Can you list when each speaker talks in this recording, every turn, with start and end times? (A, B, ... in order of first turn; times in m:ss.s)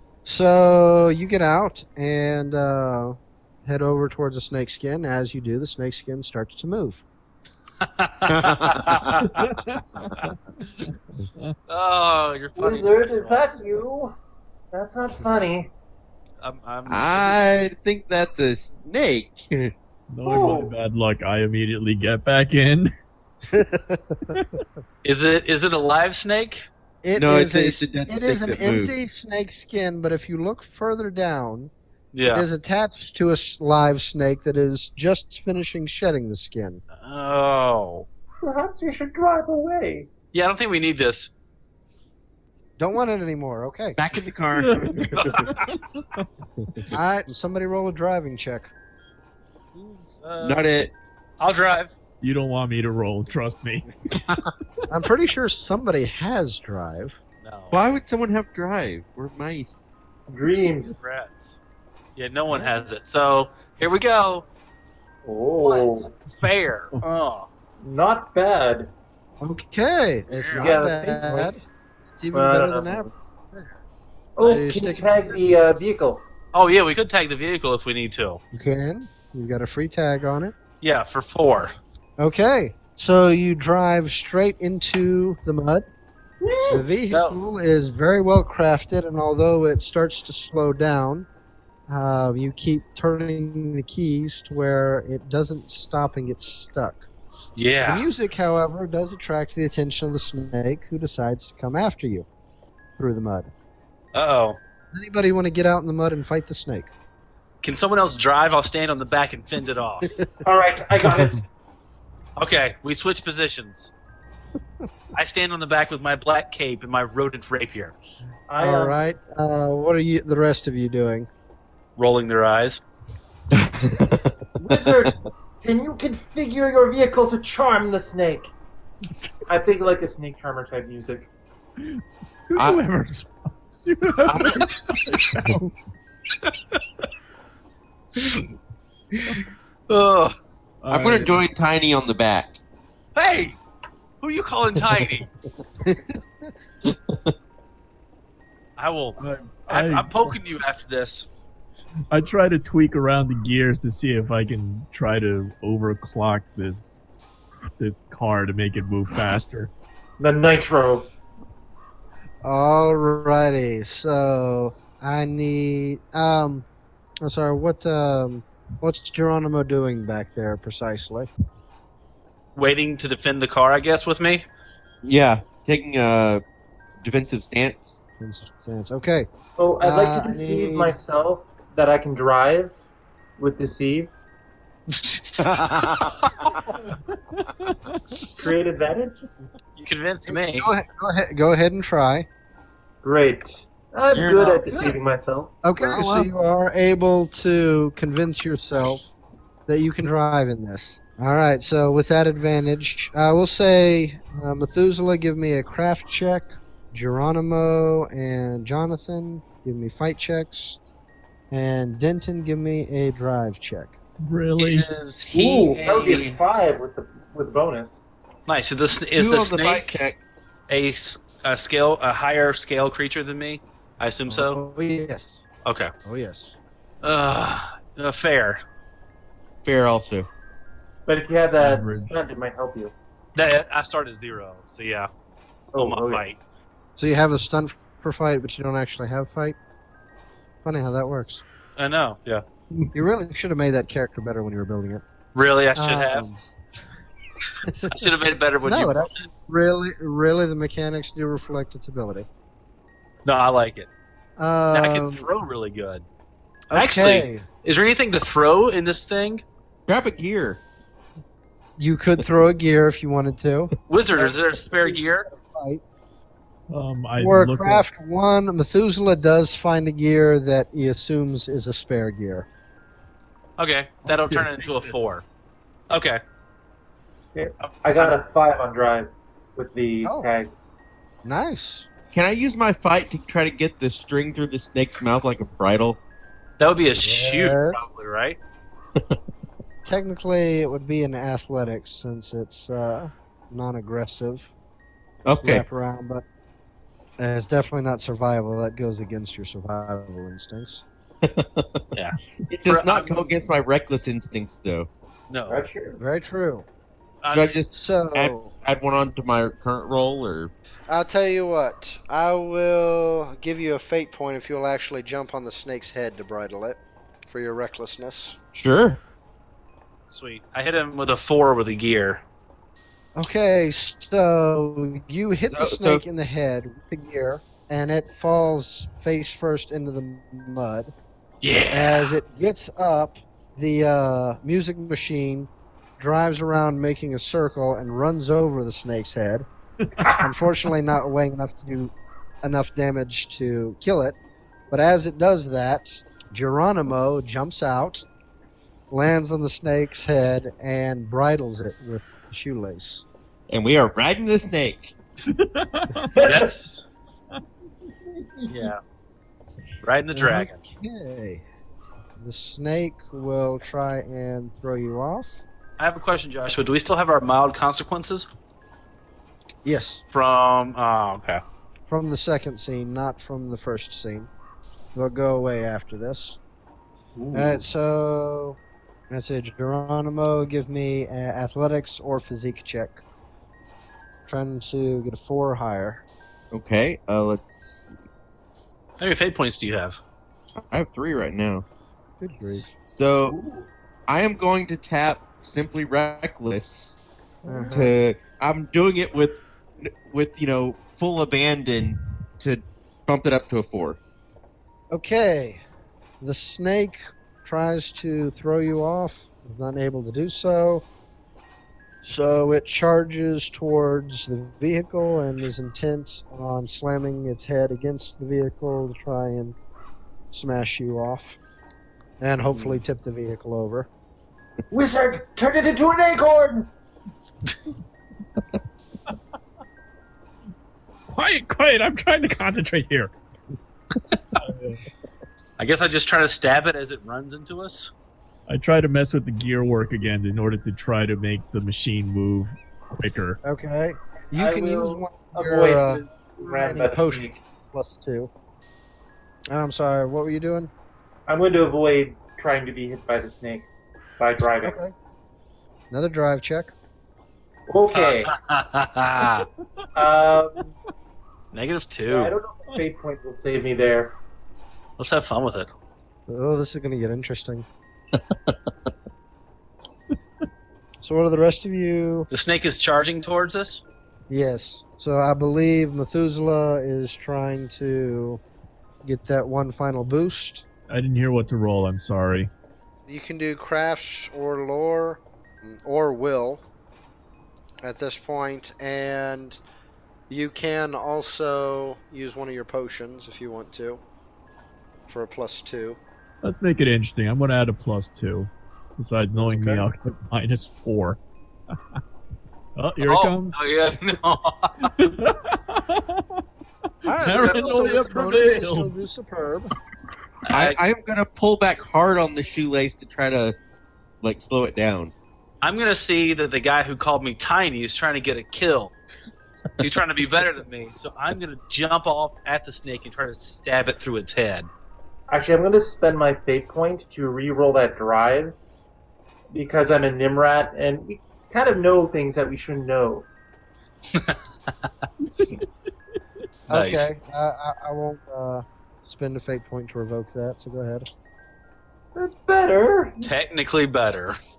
0:00.2-0:07.0 A
0:07.8-0:09.5 B
0:08.3-0:09.3 C
0:09.3-0:10.3 D
0:11.2-0:11.5 D
0:11.7-0:13.5 B
0:12.6-0:14.1 E
0:14.7-0:15.7 E
0:16.4-0:17.4 B
0:16.9-0:19.7 C
0:20.1-0:22.9 D
0:20.2-0:20.7 E
0:23.5-0:24.4 A
0:25.0-0:26.7 B
0:27.0-0:31.7 A
0:27.2-0:28.9 C
0:32.1-0:32.5 B
0:32.3-0:36.8 A
0:37.0-0:38.0 B
0:38.4-0:40.1 E
0:40.3-0:41.3 B
0:42.8-0:44.0 A
0:44.0-0:45.4 C
0:44.5-0:44.9 D
0:45.1-0:45.7 B
0:46.9-0:48.7 A
0:49.7-0:50.6 B
0:50.4-0:50.9 C
0:51.4-0:51.9 B
0:52.2-0:53.9 D
0:54.1-0:54.5 C
0:54.9-0:57.2 A
0:57.4-0:57.8 B
0:57.7-1:00.0 C
1:00.3-1:01.0 E
1:00.9-1:01.6 B
1:02.2-1:04.5 B
1:05.2-1:06.1 E
1:05.6-1:07.5 B
1:07.8-1:08.9 E
1:09.4-1:11.6 A
1:10.3-1:10.8 B
1:10.6-1:11.6 E
1:12.2-1:13.8 A
1:12.3-1:13.1 E
1:14.4-1:16.2 E
1:14.4-1:15.4 A
1:16.5-1:18.4 B
1:18.5-1:20.5 A
1:20.8-1:21.7 B
1:22.2-1:25.9 A
1:26.4-1:26.8 E
1:26.7-1:31.3 A
1:27.1-1:27.4 B
1:31.9-1:37.0 A
1:37.6-1:38.1 B
1:37.8-1:42.2 A
1:43.0-1:43.5 A
1:44.1-1:44.6 B
1:44.9-1:46.9 A
1:47.6-1:50.1 B
1:50.4-1:51.4 E
1:52.4-1:53.9 B
1:55.1-1:58.0 B
1:58.5-1:59.0 E
1:58.6-2:01.3 A
2:02.0-2:02.8 B
2:03.5-2:05.1 C
2:04.6-2:08.5 E
2:09.5-2:11.3 E
2:11.8-2:15.7 D
2:12.6-2:12.8 C
2:14.2-2:14.7 C
2:16.4-2:16.8 B
2:18.2-2:18.5 B
2:19.9-2:20.3 B
2:20.8-2:21.4 D
2:20.9-2:22.6 C
2:23.2-2:23.6 B
2:24.2-2:25.3 B
2:25.8-2:26.2 A
2:26.8-2:27.3 C
2:28.8-2:29.2 B
2:29.2-2:30.3 D
2:29.7-2:31.3 B
2:32.1-2:37.0 D
2:37.8-2:39.7 D
2:40.2-2:41.1 E
2:42.4-2:46.6 A
2:47.2-2:51.3 A
2:52.6-2:54.4 B
2:55.0-2:56.4 C
2:57.0-2:58.0 C
2:58.2-2:59.3 A
2:59.6-3:02.7 E
2:59.8-3:01.0 A
3:03.4-3:04.1 E
3:04.9-3:06.5 B
3:05.4-3:06.6 C
3:07.6-3:08.2 D
3:08.4-3:09.2 E
3:09.8-3:10.7 B
3:10.3-3:12.3 A
3:13.0-3:15.6 E
3:14.1-3:14.7 C
3:15.6-3:19.0 A
3:15.8-3:16.3 C
3:19.7-3:30.8 A
3:31.5-3:34.0 A
3:34.2-3:34.9 D
3:34.6-3:36.4 B
3:35.3-3:38.0 E
3:38.5-3:40.0 B
3:39.2-3:40.2 C
3:40.7-3:44.6 B
3:44.3-3:45.4 A
3:45.6-3:45.9 B
3:46.0-3:46.6 A
3:47.0-3:48.6 B
3:49.6-3:50.3 C
3:51.1-3:52.9 E
3:51.6-3:52.1 D
3:53.3-3:55.1 B
3:55.7-3:56.2 E
3:55.8-3:56.4 B
3:57.0-3:59.6 A
4:00.6-4:01.4 A
4:01.8-4:02.4 B
4:02.9-4:05.0 A
4:05.3-4:06.3 B
4:05.7-4:06.4 A
4:07.6-4:08.1 A
4:07.9-4:09.3 B
4:08.6-4:12.3 A
4:13.2-4:13.9 B
4:14.4-4:15.3 A
4:14.7-4:16.0 B
4:16.7-4:17.4 A
4:16.7-4:19.4 B
4:19.9-4:20.6 C
4:21.8-4:25.8 A
4:23.9-4:25.3 B
4:26.7-4:27.8 D
4:27.2-4:32.5 A
4:33.6-4:35.2 B
4:34.1-4:34.8 D
4:35.9-4:36.2 B
4:37.3-4:40.5 E
4:40.0-4:40.3 A
4:41.2-4:41.9 A
4:42.1-4:46.0 C
4:46.6-4:48.4 B
4:47.0-4:47.9 A
4:49.8-4:54.5 A
4:55.2-4:55.6 C
4:55.4-4:56.2 A
4:57.2-5:00.8 A
5:01.2-5:01.8 C
5:01.9-5:03.4 B
5:02.4-5:04.9 C
5:05.3-5:05.6 B
5:05.5-5:06.0 E
5:06.0-5:06.6 A
5:07.2-5:07.6 B
5:07.3-5:10.5 C
5:07.7-5:08.5 A
5:10.9-5:18.4 A
5:18.5-5:19.0 C
5:20.1-5:22.2 B
5:23.2-5:30.9 A
5:25.5-5:26.0 C
5:31.4-5:32.2 B
5:31.7-5:39.5 A
5:40.2-5:44.2 A
5:44.7-5:48.0 A
5:48.9-5:53.0 A
5:53.5-5:54.9 C
5:55.3-5:56.1 D
5:56.1-5:56.5 E
5:56.2-5:56.8 B
5:58.5-5:58.8 B
5:59.8-6:00.6 B
6:00.1-6:01.4 A
6:02.2-6:05.4 A
6:05.8-6:08.3 B
6:09.6-6:10.0 A
6:10.1-6:11.4 B
6:11.9-6:14.3 A
6:14.9-6:16.4 A
6:17.2-6:17.6 E
6:17.3-6:18.6 A
6:19.1-6:23.0 A
6:24.3-6:26.0 A
6:26.5-6:27.9 C
6:29.0-6:30.0 B
6:30.7-6:31.6 C
6:32.2-6:32.7 A
6:32.4-6:32.7 B
6:32.8-6:33.4 C
6:33.3-6:33.7 E
6:34.1-6:37.1 C
6:37.4-6:37.7 E
6:37.4-6:37.9 A
6:37.7-6:44.0 C
6:44.9-6:45.6 A
6:46.2-6:50.8 A
6:52.0-6:59.6 A
7:00.3-7:01.4 A
7:02.2-7:03.9 A
7:04.7-7:06.7 E
7:11.1-7:13.1 D
7:14.4-7:14.8 D
7:15.6-7:17.9 B
7:18.5-7:23.4 D
7:23.4-7:28.3 A
7:24.3-7:27.4 E
7:29.5-7:30.7 A
7:31.3-7:33.7 E
7:34.2-7:34.8 E
7:34.6-7:34.9 A
7:35.9-7:36.7 A
7:37.7-7:38.3 E
7:37.9-7:39.5 B
7:39.9-7:40.7 E
7:41.5-7:42.3 B
7:42.1-7:44.1 E
7:45.0-7:45.7 B
7:46.3-7:47.6 A
7:48.1-7:48.7 C
7:51.0-7:52.3 A
7:52.3-7:53.8 B
7:54.3-7:58.4 A
7:59.0-8:00.6 A
8:00.9-8:02.5 D
8:03.1-8:06.6 A
8:07.8-8:09.6 A
8:10.3-8:14.0 A
8:15.1-8:16.0 A
8:16.4-8:21.2 D
8:19.3-8:19.9 A
8:22.8-8:23.6 D
8:23.0-8:24.9 B
8:25.0-8:26.4 D
8:27.0-8:28.9 D
8:27.0-8:29.7 A
8:30.4-8:30.8 B
8:30.5-8:33.6 C
8:34.2-8:35.1 C
8:35.6-8:38.9 B
8:39.8-8:44.7 B
8:45.3-8:48.5 E
8:49.5-8:53.3 E
8:54.1-8:55.0 B
8:56.7-9:01.1 A
8:56.7-8:57.1 B
9:02.1-9:03.3 E
9:03.2-9:04.4 B